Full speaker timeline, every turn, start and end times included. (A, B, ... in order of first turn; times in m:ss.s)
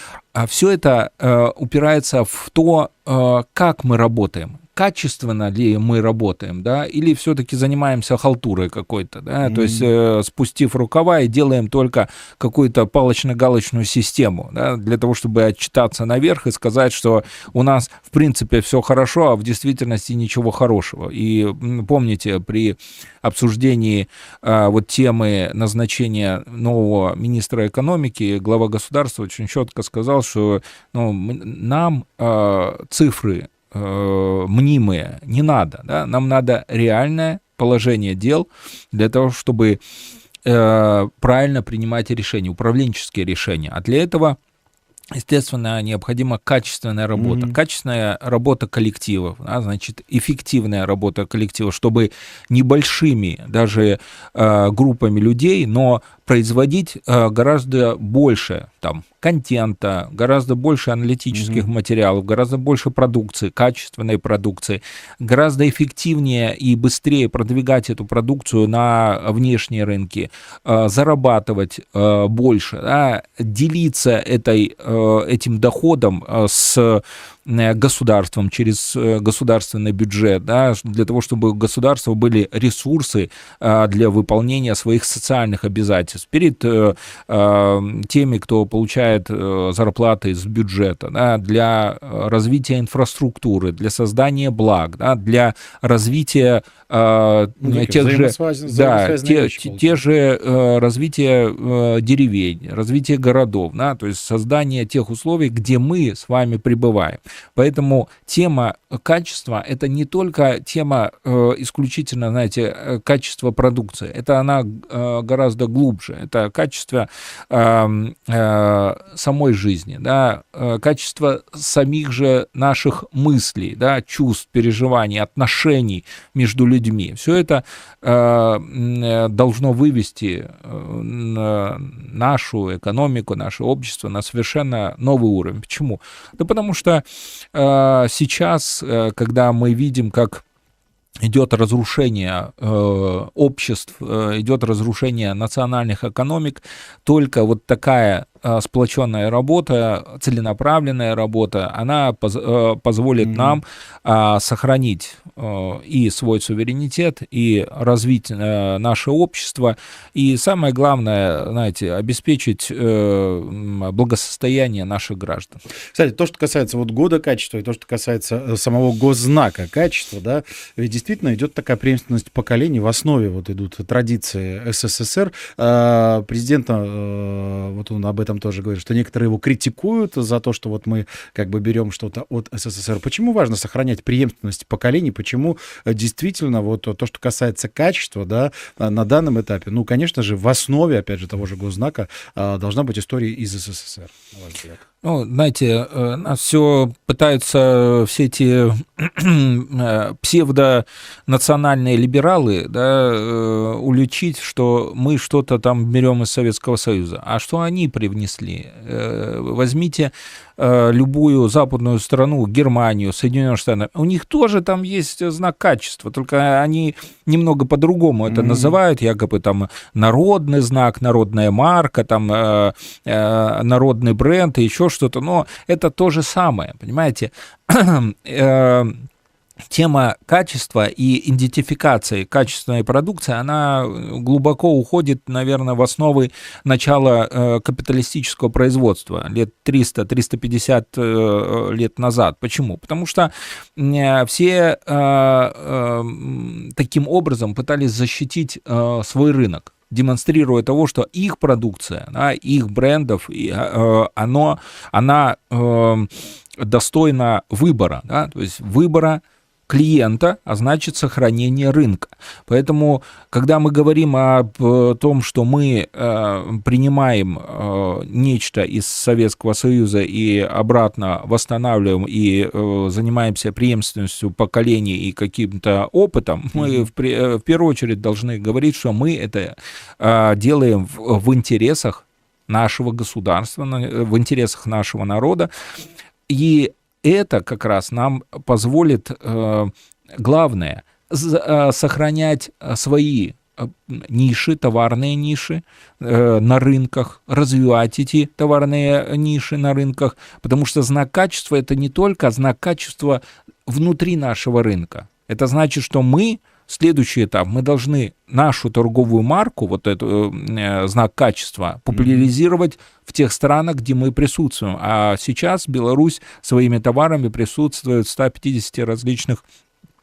0:00.3-0:39.8 A
0:09.4-0:09.9 B
0:40.4-0:44.4 A
0:45.1-2:20.4 A
0:47.2-0:47.6 B
1:01.3-1:01.7 B
1:37.6-1:40.0 B
2:21.2-2:45.6 A
2:33.2-2:33.6 B
2:45.9-3:14.8 B
3:15.0-3:49.1 A
3:38.3-3:38.8 B
3:49.7-4:45.5 A
4:36.6-4:36.9 B
4:46.3-5:19.4 A
5:11.9-5:12.3 B